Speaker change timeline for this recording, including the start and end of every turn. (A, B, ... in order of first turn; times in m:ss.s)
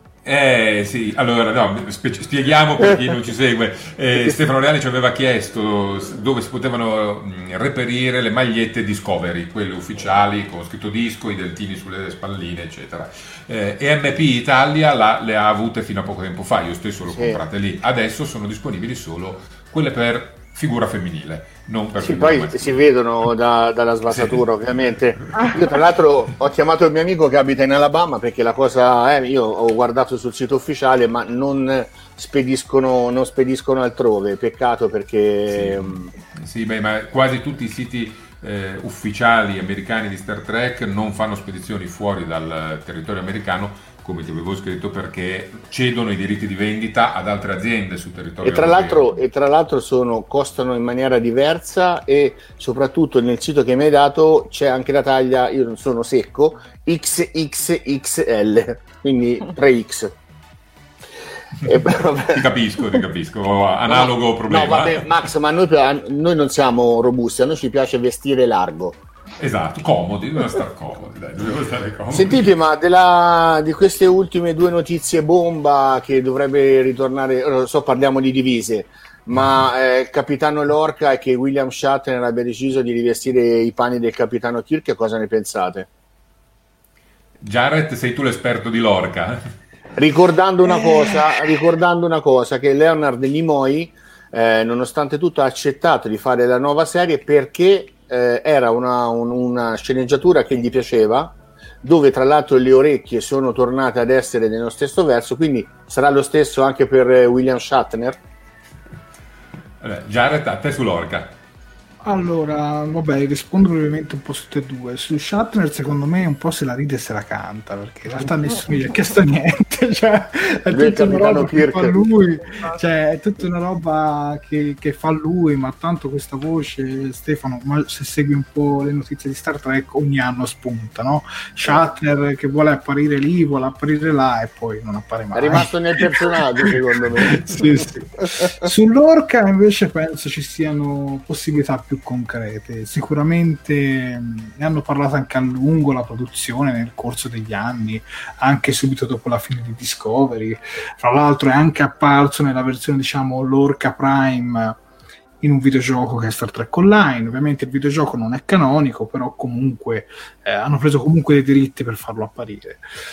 0:00.2-0:22.8 A
0:02.8-0:03.1 B
0:04.1-0:04.4 B
0:17.0-0:17.4 B
0:22.0-0:36.1 B
0:24.1-0:24.4 A
0:25.3-0:25.8 A
0:35.5-0:49.2 A
0:48.4-1:00.1 B
1:01.6-1:02.4 B
1:02.3-1:05.2 A
1:03.9-1:09.0 B
1:09.4-1:12.4 A
1:12.1-1:25.9 B
1:27.4-1:29.4 A
1:30.0-1:48.2 B
1:49.8-1:51.4 A
1:52.0-2:16.1 C
2:00.7-2:02.0 B
2:15.3-2:17.5 B
2:17.2-2:34.8 C
2:35.4-2:42.9 C